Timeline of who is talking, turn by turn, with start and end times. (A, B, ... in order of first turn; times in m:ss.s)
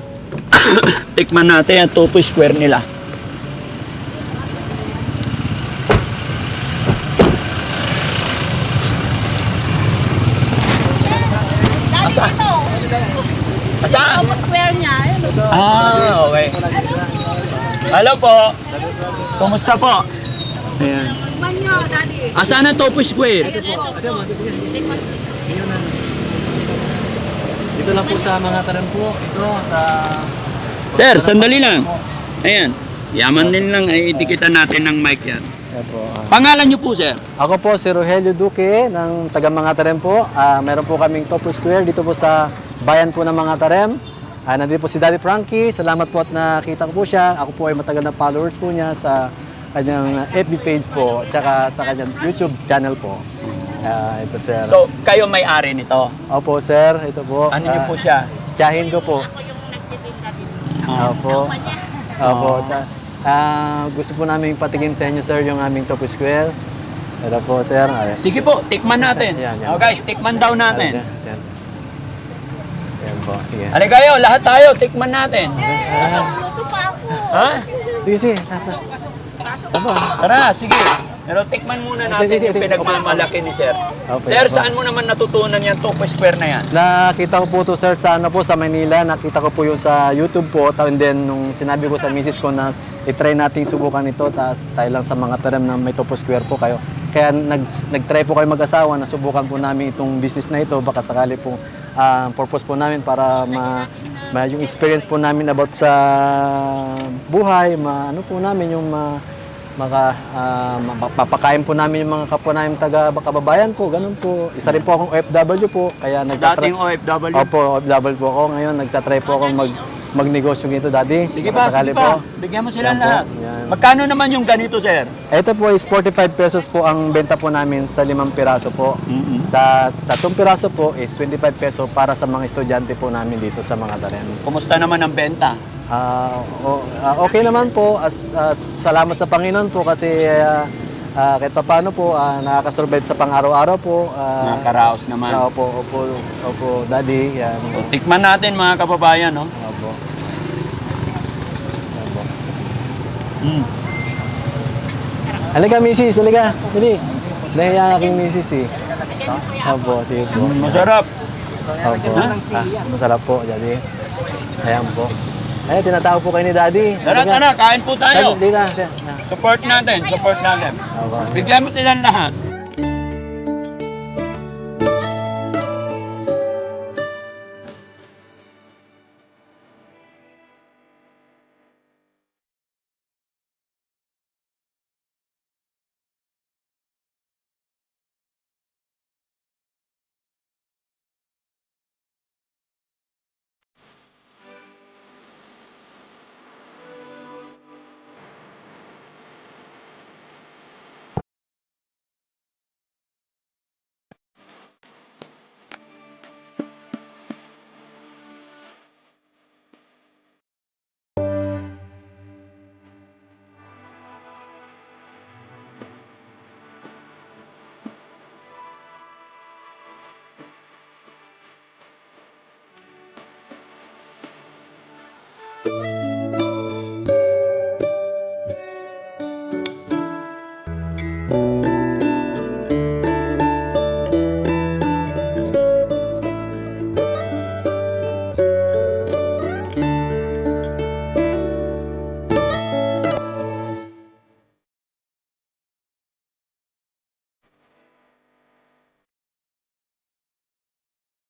0:00.5-0:02.8 A
0:11.9-0:12.6 A
0:13.8-0:14.4 A
0:14.1-0:15.5 B
0:15.2-0:17.7 C
0:15.5-0:16.6 A
0:17.7-0:18.6 A
0:19.0-0:19.3 C
0:19.4-0:20.1 A
0:20.8-0:21.2 A
0:21.4-0:22.3 B
0:22.3-0:23.6 A
0:23.4-0:24.9 C
0:25.4-0:26.2 C
0:27.8-0:30.3 C
0:30.9-0:32.0 C
0:30.9-0:31.9 A
0:32.4-0:35.5 A
0:33.4-0:34.4 C
0:35.7-0:36.4 C
0:36.3-0:37.2 A
0:37.4-0:53.2 C
0:53.4-0:53.9 A
0:53.8-0:54.8 C
0:54.6-0:56.1 A
0:56.3-0:57.9 C
0:57.5-0:58.3 A
0:58.6-0:59.3 C
1:00.8-1:01.2 A
1:01.0-1:06.6 C
1:02.2-1:02.8 A
1:07.2-1:08.2 C
1:08.2-1:11.0 A
1:09.0-1:10.0 C
1:10.6-1:11.4 C
1:13.0-1:13.8 C
1:13.7-1:15.6 A
1:15.6-1:16.4 C
1:17.2-1:17.7 A
1:18.0-1:18.8 C
1:19.7-1:20.2 C
1:20.2-1:26.7 A
1:22.0-1:23.3 C
1:24.1-1:24.7 C
1:26.7-1:49.2 C
1:49.8-1:56.7 C
1:56.4-1:57.5 A
1:57.3-2:02.2 C
2:01.3-2:05.1 A
2:02.8-2:03.8 C
2:05.3-2:14.4 C
2:09.1-2:09.5 A
2:14.4-2:15.6 A
2:15.9-2:27.9 C
2:24.4-2:25.4 A
2:27.7-2:29.5 A
2:29.6-2:30.0 C
2:32.0-2:32.3 C
2:33.4-2:33.7 A
2:35.5-2:38.7 C
2:39.5-2:40.9 C
2:40.3-2:41.1 A
2:41.8-2:43.8 C
2:42.1-2:42.5 A
2:44.6-2:45.1 C
2:45.7-2:47.4 C
2:47.0-2:48.4 A
2:48.1-2:49.2 C
2:49.2-2:52.3 A
2:50.9-2:51.4 C